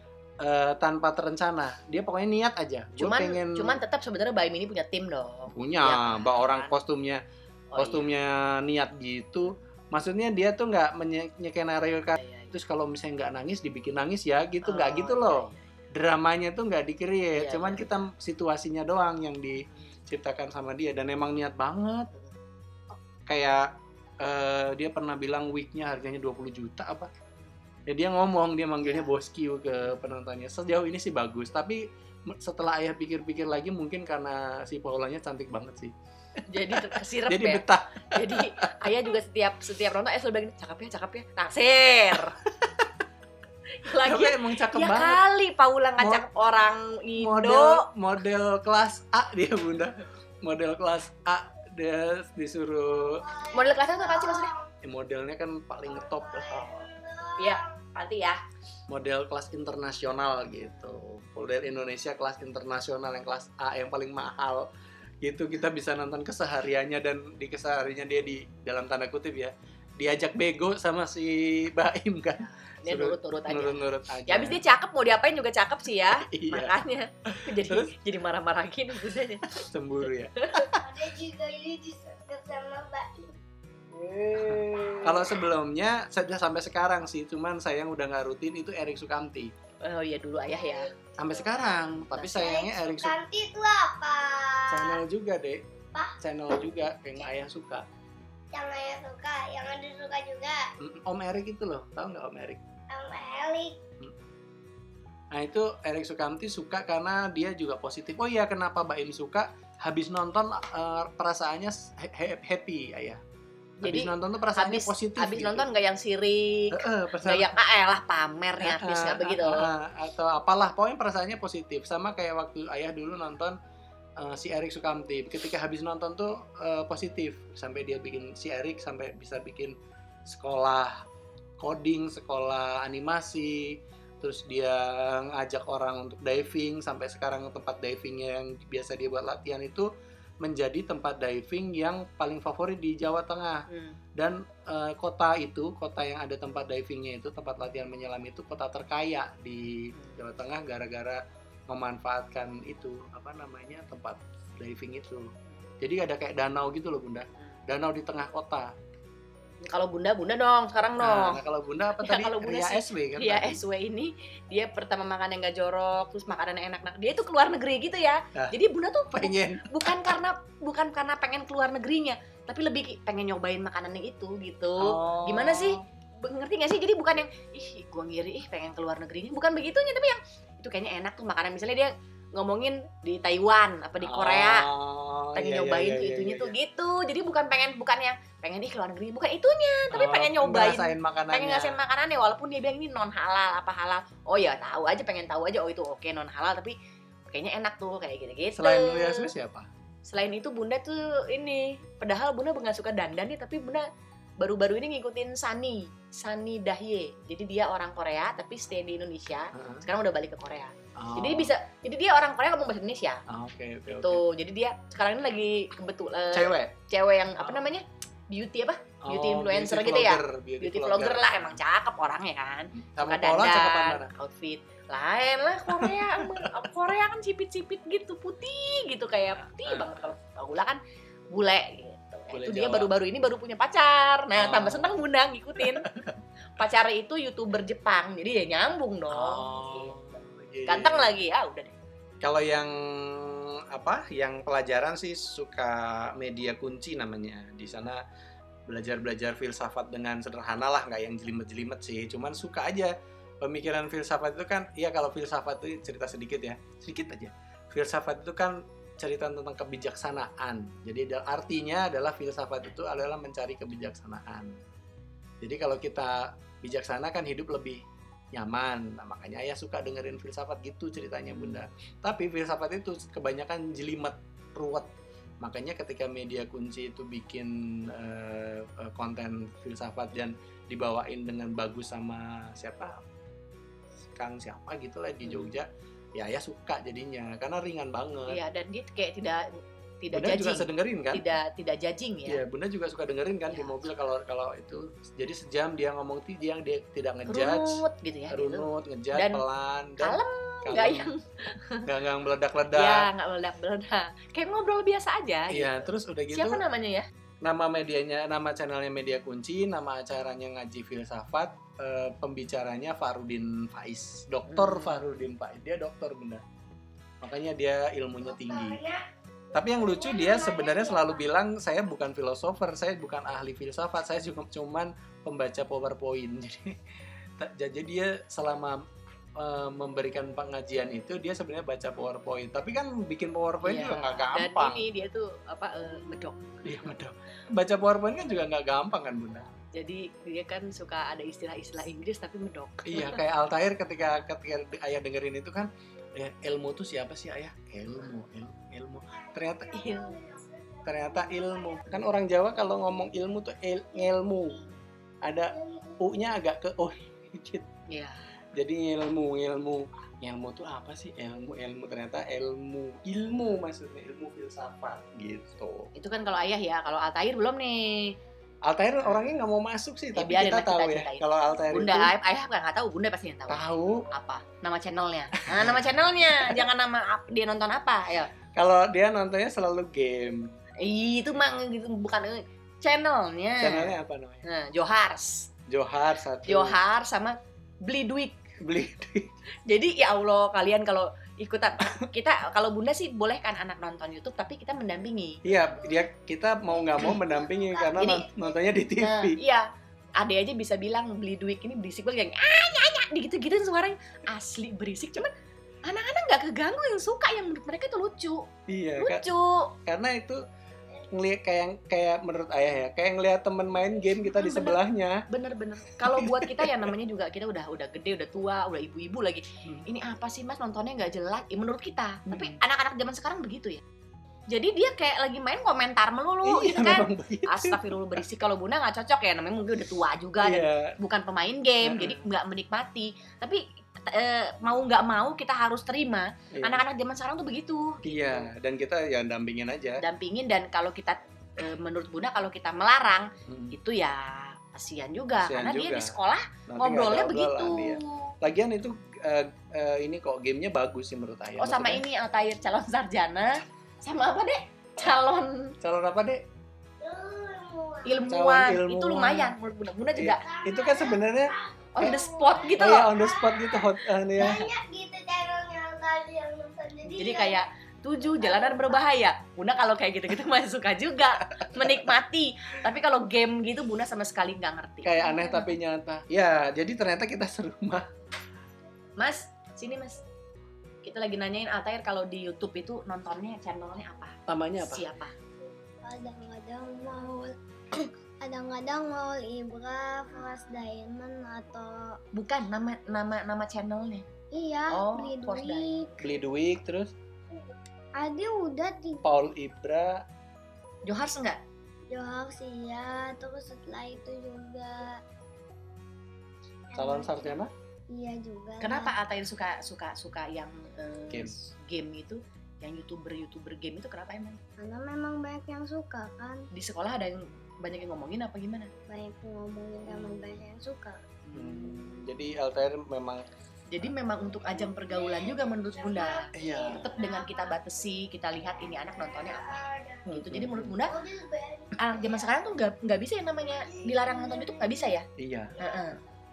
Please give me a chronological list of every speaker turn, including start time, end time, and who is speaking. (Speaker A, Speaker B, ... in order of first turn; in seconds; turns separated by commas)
Speaker A: 0.4-3.8, Speaker B: 3.0-6.8, Speaker A: 5.5-7.2, Speaker B: 7.7-8.1, Speaker A: 7.8-22.1, Speaker B: 12.2-12.6, Speaker B: 14.6-15.6, Speaker B: 17.4-17.9, Speaker B: 19.7-19.9, Speaker A: 23.3-23.7, Speaker A: 24.2-27.1, Speaker A: 27.9-35.9, Speaker B: 28.8-29.1, Speaker B: 36.5-42.4, Speaker A: 36.7-39.0, Speaker A: 42.4-42.9, Speaker B: 43.8-47.9, Speaker A: 43.9-45.2, Speaker A: 46.0-46.3, Speaker A: 47.2-53.3, Speaker C: 53.2-54.7, Speaker B: 53.5-54.5, Speaker A: 54.8-56.9, Speaker C: 55.9-57.7, Speaker B: 57.4-58.4, Speaker A: 58.9-64.7, Speaker B: 60.6-61.0, Speaker A: 65.2-74.6, Speaker B: 72.4-79.6, Speaker A: 76.1-77.9, Speaker A: 79.5-80.8, Speaker B: 80.4-80.7, Speaker C: 80.8-83.3, Speaker C: 84.0-85.4, Speaker A: 84.3-89.5, Speaker B: 89.8-90.9, Speaker C: 90.5-95.0, Speaker A: 91.2-93.2, Speaker B: 92.1-92.5, Speaker A: 94.7-95.6, Speaker A: 96.2-97.8, Speaker C: 98.5-100.6, Speaker A: 100.8-102.6, Speaker C: 102.9-103.7, Speaker A: 105.3-113.2, Speaker B: 113.8-119.7, Speaker A: 113.8-115.7, Speaker A: 116.7-117.5, Speaker A: 118.6-123.6, Speaker A: 124.2-129.7, Speaker A: 130.3-131.0, Speaker A: 131.6-139.9, Speaker A: 140.4-143.7, Speaker B: 143.7-144.0, Speaker A: 144.2-155.3, Speaker B: 150.0-150.2, Speaker A: 155.8-158.7, Speaker B: 159.6-161.4, Speaker A: 161.0-163.6, Speaker B: 162.0-184.7, Speaker A: 169.1-169.7, Speaker A: 174.8-175.8, Speaker A: 184.0-186.6, Speaker B: 185.3-196.8, Speaker A: 189.9-191.8, Speaker B: 197.3-199.3, Speaker A: 198.6-199.7, Speaker B: 200.1-203.9, Speaker B: 204.4-213.2, Speaker A: 209.5-209.9, Speaker A: 210.9-211.5, Speaker A: 213.3-214.2, Speaker B: 213.9-235.9, Speaker A: 216.3-216.8, Speaker A: 217.4-217.7, Speaker A: 219.0-221.6, Speaker A: 222.8-224.1, Speaker A: 225.7-226.6, Speaker A: 229.4-230.1, Speaker A: 232.3-232.9, Speaker A: 234.3-234.9, Speaker A: 235.6-236.1, Speaker B: 236.6-240.1, Speaker A: 239.1-241.2, Speaker B: 240.7-241.7, Speaker A: 242.2-248.0, Speaker A: 248.7-264.6, Speaker A: 265.4-267.8, Speaker A: 268.3-274.9, Speaker A: 275.4-282.9, Speaker A: 284.2-288.4, Speaker B: 285.2-285.6, Speaker B: 288.3-292.4, Speaker A: 290.1-291.2, Speaker A: 292.2-301.1, Speaker B: 293.5-293.9, Speaker B: 297.3-299.4, Speaker B: 300.0-301.8, Speaker A: 301.8-303.1, Speaker B: 302.7-307.1, Speaker A: 305.5-306.6, Speaker A: 307.4-316.4, Speaker B: 314.5-315.0, Speaker A: 317.2-318.8, Speaker C: 318.2-319.0, Speaker C: 319.5-321.3, Speaker A: 319.5-326.8, Speaker A: 327.4-328.8, Speaker A: 329.4-334.9, Speaker B: 333.6-337.0, Speaker A: 336.6-339.5, Speaker B: 339.7-343.2, Speaker A: 342.8-349.8, Speaker C: 349.4-351.8, Speaker B: 349.7-350.2, Speaker A: 350.8-354.6, Speaker C: 354.1-354.6, Speaker A: 355.2-357.7, Speaker C: 355.5-356.0, Speaker B: 357.9-358.2, Speaker A: 358.5-365.9, Speaker B: 365.9-368.2, Speaker A: 368.7-372.1, Speaker B: 369.0-369.3, Speaker B: 370.1-378.3, Speaker A: 373.5-374.1, Speaker A: 375.4-376.6, Speaker A: 378.5-380.5, Speaker B: 380.8-385.5, Speaker A: 383.6-384.4, Speaker A: 385.7-386.8, Speaker B: 386.5-388.4, Speaker A: 388.6-389.3, Speaker B: 389.7-395.4, Speaker A: 395.4-399.4, Speaker C: 395.7-396.1, Speaker C: 396.6-398.8, Speaker B: 397.9-398.3, Speaker B: 399.0-399.6, Speaker B: 400.2-405.3, Speaker B: 405.8-409.7, Speaker A: 408.7-409.2, Speaker A: 409.9-410.4, Speaker A: 411.1-415.2, Speaker B: 414.2-423.8, Speaker A: 416.0-416.9, Speaker A: 422.3-422.6, Speaker B: 424.5-438.5, Speaker A: 426.4-428.2, Speaker A: 430.4-430.9, Speaker A: 431.8-432.2, Speaker A: 436.5-436.8, Speaker A: 438.0-440.0, Speaker B: 440.0-448.3, Speaker A: 443.5-443.8, Speaker A: 445.4-446.1, Speaker A: 446.7-452.0, Speaker B: 451.6-455.8, Speaker A: 455.8-456.4, Speaker C: 457.0-458.3, Speaker B: 458.1-460.4, Speaker A: 458.3-459.5, Speaker A: 460.1-461.5, Speaker C: 460.4-467.7, Speaker B: 461.9-463.1, Speaker A: 462.8-464.7, Speaker B: 467.1-475.4, Speaker C: 468.4-469.1, Speaker A: 475.0-478.1, Speaker C: 475.3-475.7, Speaker B: 479.2-480.2, Speaker B: 481.0-485.3, Speaker A: 484.5-485.1, Speaker C: 486.0-492.2, Speaker B: 490.3-490.7, Speaker B: 492.3-494.2, Speaker C: 494.5-496.2, Speaker B: 494.9-496.2, Speaker A: 496.2-497.1, Speaker C: 498.2-499.3, Speaker A: 499.2-500.2, Speaker B: 501.1-501.6, Speaker C: 502.1-505.1, Speaker C: 506.9-507.6, Speaker A: 506.9-507.7, Speaker C: 508.1-509.2, Speaker B: 508.8-514.6, Speaker A: 511.3-511.7, Speaker C: 514.8-516.7, Speaker B: 516.7-518.9, Speaker C: 519.1-521.2, Speaker B: 520.0-520.6, Speaker A: 521.5-523.4, Speaker B: 521.5-521.9, Speaker B: 523.9-531.2, Speaker C: 524.4-527.8, Speaker A: 526.5-527.0, Speaker C: 529.0-530.3, Speaker A: 530.3-531.0, Speaker C: 531.0-532.6, Speaker B: 532.0-535.3, Speaker C: 533.7-534.8, Speaker A: 535.4-535.7, Speaker C: 535.8-536.2, Speaker B: 535.8-536.2